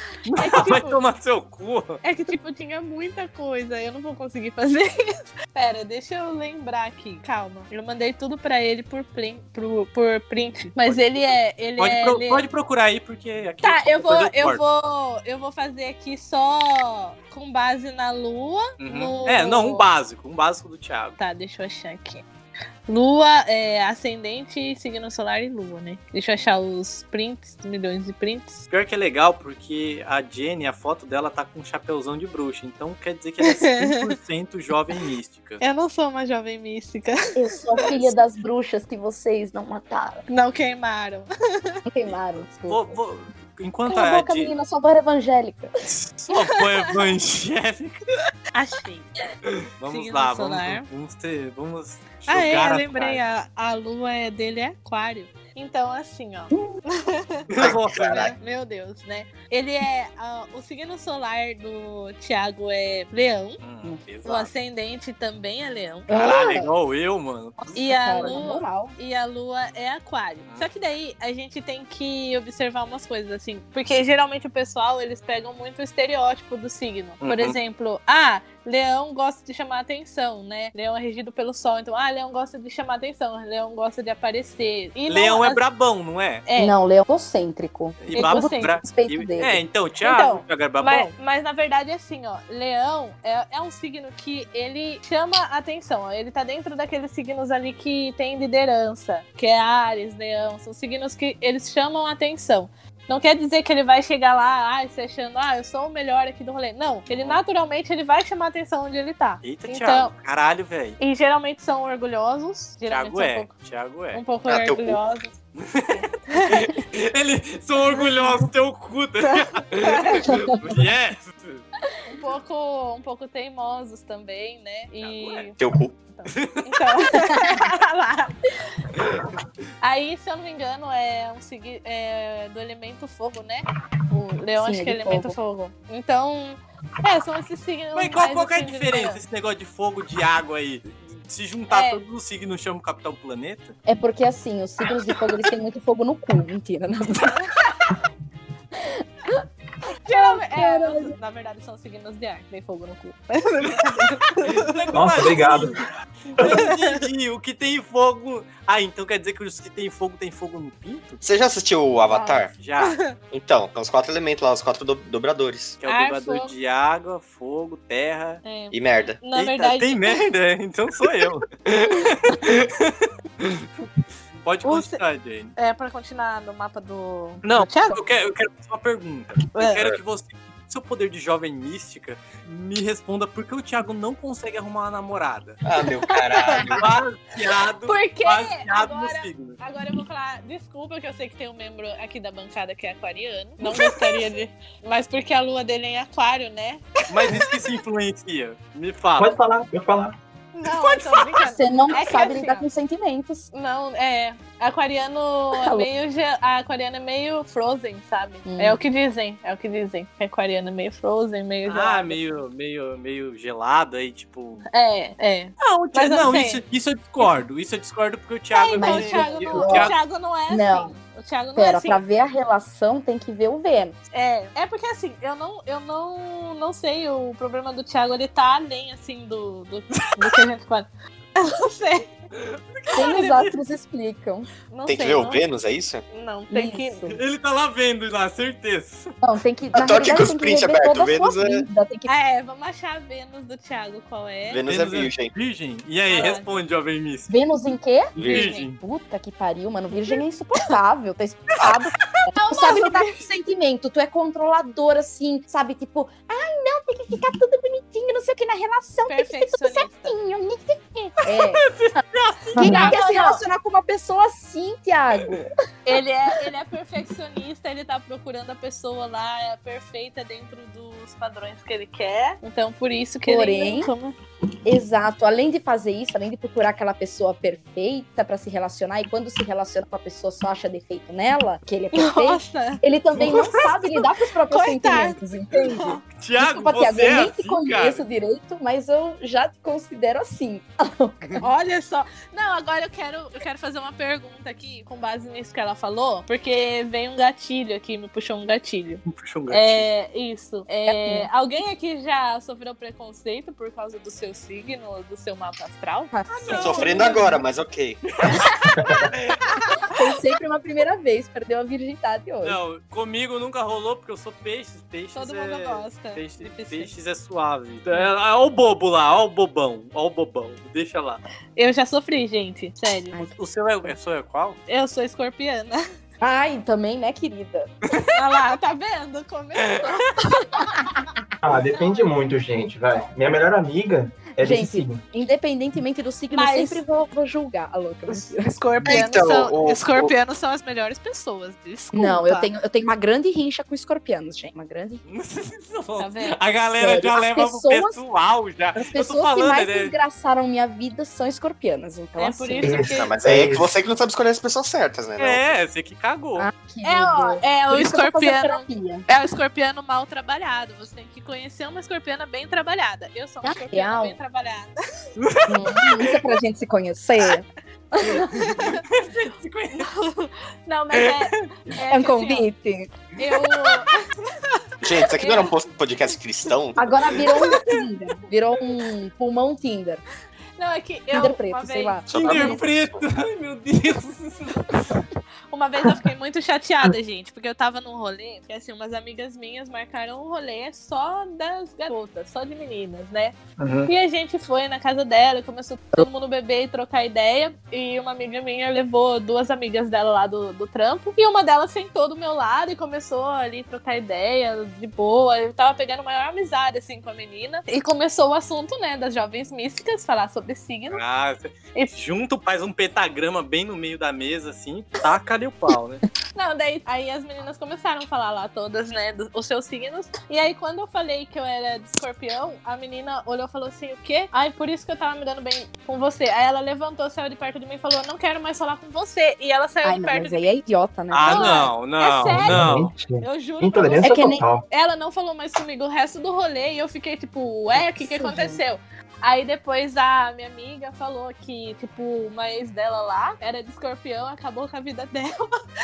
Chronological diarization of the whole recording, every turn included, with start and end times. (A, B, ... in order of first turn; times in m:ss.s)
0:00.3-0:02.0 A
0:00.4-0:01.0 B
0:02.0-0:05.0 B
0:05.5-0:12.5 B
0:10.8-0:14.6 A
0:13.6-0:19.9 B
0:18.8-0:21.2 A
0:21.2-0:22.2 B
0:22.9-0:28.6 B
0:28.7-0:35.6 A
0:33.4-0:34.2 B
0:35.6-0:38.1 B
0:37.3-0:40.2 C
0:40.3-0:41.3 B
0:41.9-0:43.0 C
0:42.6-0:44.5 A
0:43.9-0:45.7 C
0:45.9-0:48.0 A
0:46.3-0:47.1 B
0:48.5-0:49.1 B
0:49.8-0:53.2 A
0:49.9-0:50.9 B
0:52.3-0:57.5 B
0:57.5-0:58.3 A
0:57.6-0:58.3 D
0:58.2-1:03.6 B
1:03.6-1:04.5 A
1:04.2-1:06.4 B
1:06.1-1:06.7 C
1:06.1-1:08.4 A
1:07.6-1:09.0 C
1:07.7-1:25.6 B
1:17.2-1:17.6 A
1:25.1-1:26.4 A
1:26.5-1:26.8 B
1:26.6-1:29.6 C
1:28.0-1:31.1 A
1:28.1-1:28.8 B
1:30.0-1:50.1 B
1:47.1-1:47.4 A
1:49.4-1:51.0 A
1:51.0-1:53.5 B
1:52.9-1:54.3 A
1:54.1-1:55.4 B
1:54.5-1:55.0 D
1:55.6-2:01.6 A
1:56.3-1:56.7 B
1:57.9-1:58.3 B
1:59.3-2:00.4 B
2:02.1-2:05.6 B
2:05.0-2:05.5 A
2:05.6-2:06.0 D
2:06.1-2:08.3 B
2:06.3-2:06.8 A
2:09.8-2:19.2 B
2:14.6-2:15.4 C
2:17.9-2:23.8 A
2:21.7-2:22.0 B
2:23.9-2:27.4 C
2:30.0-2:34.8 B
2:30.1-2:31.2 C
2:34.5-2:35.8 A
2:34.9-2:35.8 E
2:36.4-2:41.2 A
2:36.4-2:37.0 B
2:41.2-2:42.5 D
2:42.1-2:43.2 B
2:42.5-2:43.0 A
2:43.3-2:45.8 D
2:45.8-2:48.4 A
2:45.8-2:46.5 B
2:48.4-2:50.2 B
2:48.7-2:49.2 D
2:49.3-2:52.9 A
2:54.4-2:55.5 A
2:54.6-2:55.0 B
2:55.6-2:58.0 B
2:57.4-3:05.6 A
2:59.6-2:59.8 B
3:05.6-3:06.8 D
3:06.0-3:06.7 B
3:06.6-3:09.6 A
3:07.9-3:16.8 B
3:17.1-3:19.4 A
3:19.2-3:20.2 E
3:20.5-3:22.6 B
3:21.4-3:23.5 C
3:23.5-3:32.2 B
3:25.6-3:25.9 C
3:28.5-3:28.8 C
3:31.7-3:34.6 A
3:34.7-3:36.6 B
3:35.6-3:40.0 A
3:38.5-3:42.0 B
3:38.8-3:39.9 C
3:40.5-3:40.9 C
3:41.6-3:44.0 C
3:44.1-3:52.1 B
3:52.4-3:53.5 A
3:52.9-3:54.5 C
3:54.7-3:55.4 B
3:54.9-3:56.0 D
3:56.1-3:57.1 B
3:56.5-3:57.2 C
3:57.1-3:59.1 A
3:59.2-4:02.1 C
3:59.7-4:01.7 D
4:02.1-4:04.6 B
4:04.5-4:05.3 D
4:04.6-4:07.3 A
4:06.1-4:06.5 B
4:07.3-4:21.7 C
4:08.2-4:08.5 D
4:08.2-4:08.8 A
4:08.3-4:08.7 B
4:12.4-4:13.1 B
4:19.1-4:20.1 B
4:21.4-4:23.0 A
4:22.6-4:23.4 B
4:22.6-4:25.5 C
4:25.9-4:34.2 B
4:33.2-4:33.9 C
4:34.6-4:51.4 C
4:41.9-4:46.0 B
4:46.1-4:48.0 A
4:51.4-5:07.4 B
4:59.1-4:59.9 A
5:00.9-5:01.3 C
5:06.1-5:07.2 C
5:06.5-5:06.7 A
5:06.5-5:08.0 D
5:08.8-5:09.1 E
5:09.9-5:12.6 C
5:12.4-5:21.2 A
5:15.1-5:16.9 B
5:21.6-5:23.2 B
5:23.3-5:24.6 A
5:24.7-5:25.8 B
5:26.2-5:27.7 C
5:28.1-5:30.8 B
5:31.4-5:35.0 E
5:31.7-5:32.1 B
5:34.4-5:39.0 C
5:36.3-5:36.8 B
5:38.4-5:42.5 B
5:38.9-5:40.1 D
5:41.9-5:45.0 C
5:45.1-5:49.9 A
5:46.0-5:46.4 B
5:46.8-5:48.0 C
5:48.8-5:52.9 C
5:52.2-5:53.1 B
5:52.6-5:53.7 E
5:52.9-5:55.5 D
5:55.2-5:56.5 A
5:56.4-5:59.1 C
5:56.8-6:04.8 B
6:03.4-6:04.2 C
6:05.2-6:06.1 A
6:05.5-6:08.6 C
6:08.4-6:08.8 B
6:08.9-6:09.9 A
6:09.7-6:12.5 B
6:10.9-6:11.3 A
6:11.9-6:12.9 C
6:13.2-6:13.9 B
6:14.8-6:16.9 D
6:15.0-6:15.6 B
6:16.8-6:20.0 C
6:20.6-6:22.5 B
6:21.1-6:22.7 C
6:22.1-6:23.0 D
6:22.1-6:25.0 A
6:25.5-6:51.0 B
6:33.6-6:33.9 A
6:50.9-6:56.0 A
6:56.4-7:10.6 B
7:09.8-7:11.7 C
7:11.1-7:12.9 A
7:11.2-7:25.6 B
7:12.3-7:14.6 E
7:14.0-7:14.4 C
7:17.8-7:18.6 C